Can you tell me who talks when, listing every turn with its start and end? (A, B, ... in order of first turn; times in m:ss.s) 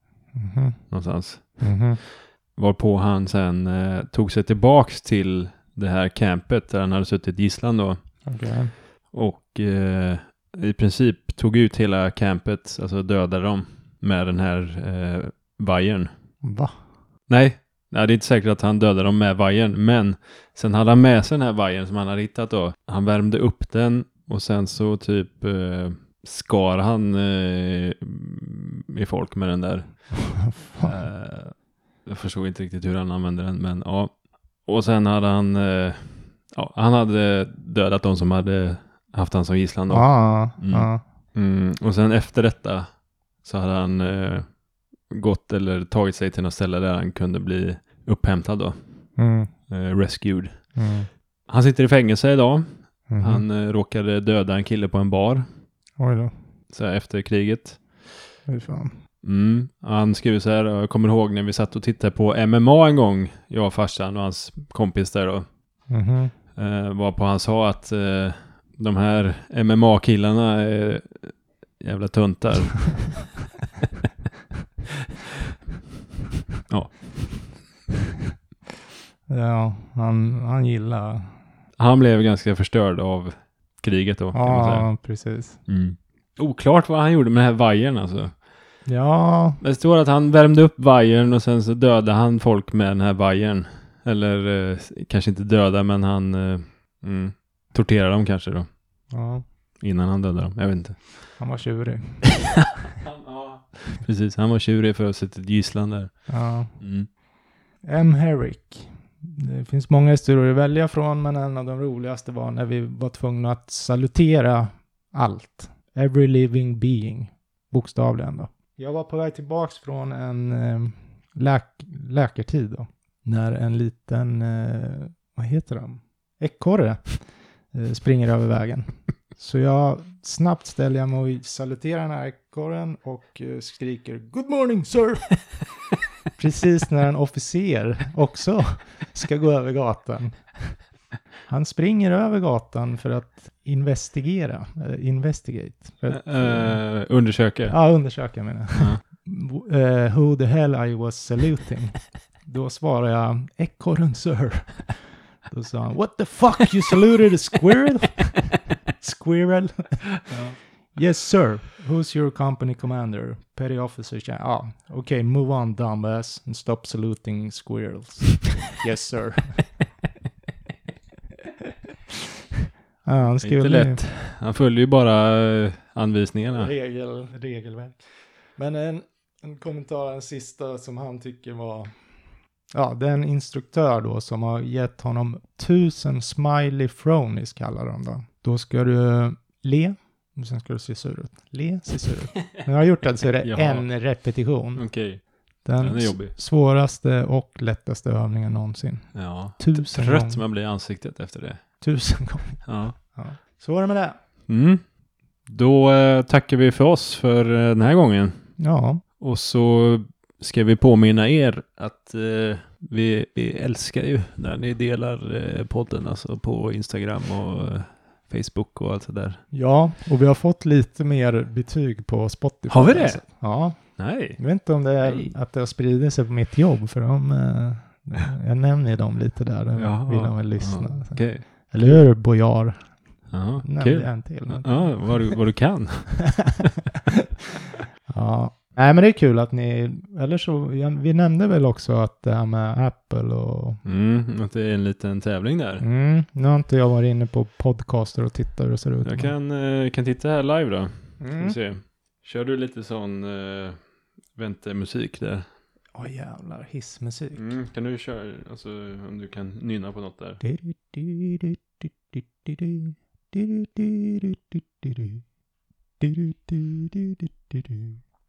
0:00.3-0:00.8 A
0:00.9-0:08.0 B
0:01.6-0:02.0 A
0:08.2-0:08.7 A
0:09.1-0:16.1 B
0:16.4-0:16.7 A
0:17.3-0:44.5 B
0:30.3-0:31.0 A
0:39.9-0:41.0 A
0:45.0-0:48.8 B
0:49.2-0:49.5 A
0:49.7-0:50.6 B
0:50.8-0:51.1 A
0:51.5-0:55.5 B
0:53.1-0:53.4 A
0:56.0-0:56.3 A
0:56.7-0:58.1 B
0:58.5-0:59.0 A
0:59.2-1:05.5 B
1:05.9-1:06.3 A
1:06.6-1:13.3 B
1:16.7-1:17.5 B
1:19.3-1:21.3 A
1:21.8-1:24.9 B
1:24.3-1:25.6 A
1:25.7-1:28.4 B
1:28.9-1:29.6 A
1:29.6-1:38.7 B
1:39.1-1:39.4 A
1:39.8-1:41.4 B
1:41.4-1:42.5 A
1:42.6-1:47.1 B
1:46.3-1:46.7 A
1:47.8-2:15.6 A
2:16.4-2:20.8 A
2:21.5-2:26.8 A
2:26.1-2:27.9 B
2:27.7-2:40.1 A
2:28.8-2:29.0 B
2:40.3-2:40.6 B
2:40.9-2:49.7 A
2:53.0-2:54.0 A
2:53.4-2:56.7 B
2:56.5-2:58.0 A
2:58.6-3:02.0 A
3:02.7-3:14.9 A
3:13.4-3:13.9 B
3:14.8-3:15.2 B
3:15.6-3:20.4 A
3:15.8-3:16.3 B
3:19.1-3:21.6 B
3:21.8-3:24.2 A
3:22.7-3:23.0 B
3:24.5-3:24.8 B
3:25.5-3:28.4 B
3:28.6-3:29.0 A
3:29.2-3:39.4 B
3:39.5-3:53.0 A
3:42.7-3:44.5 B
3:45.0-3:45.3 B
3:49.8-3:52.0 B
3:53.3-3:56.6 B
3:53.6-3:55.2 A
3:58.1-4:03.8 A
4:03.8-4:05.8 B
4:05.8-4:09.3 A
4:09.0-4:13.8 B
4:11.2-4:11.6 A
4:14.3-4:15.4 B
4:16.0-4:17.5 A
4:17.4-4:20.4 B
4:20.4-4:25.2 A
4:26.0-4:27.9 A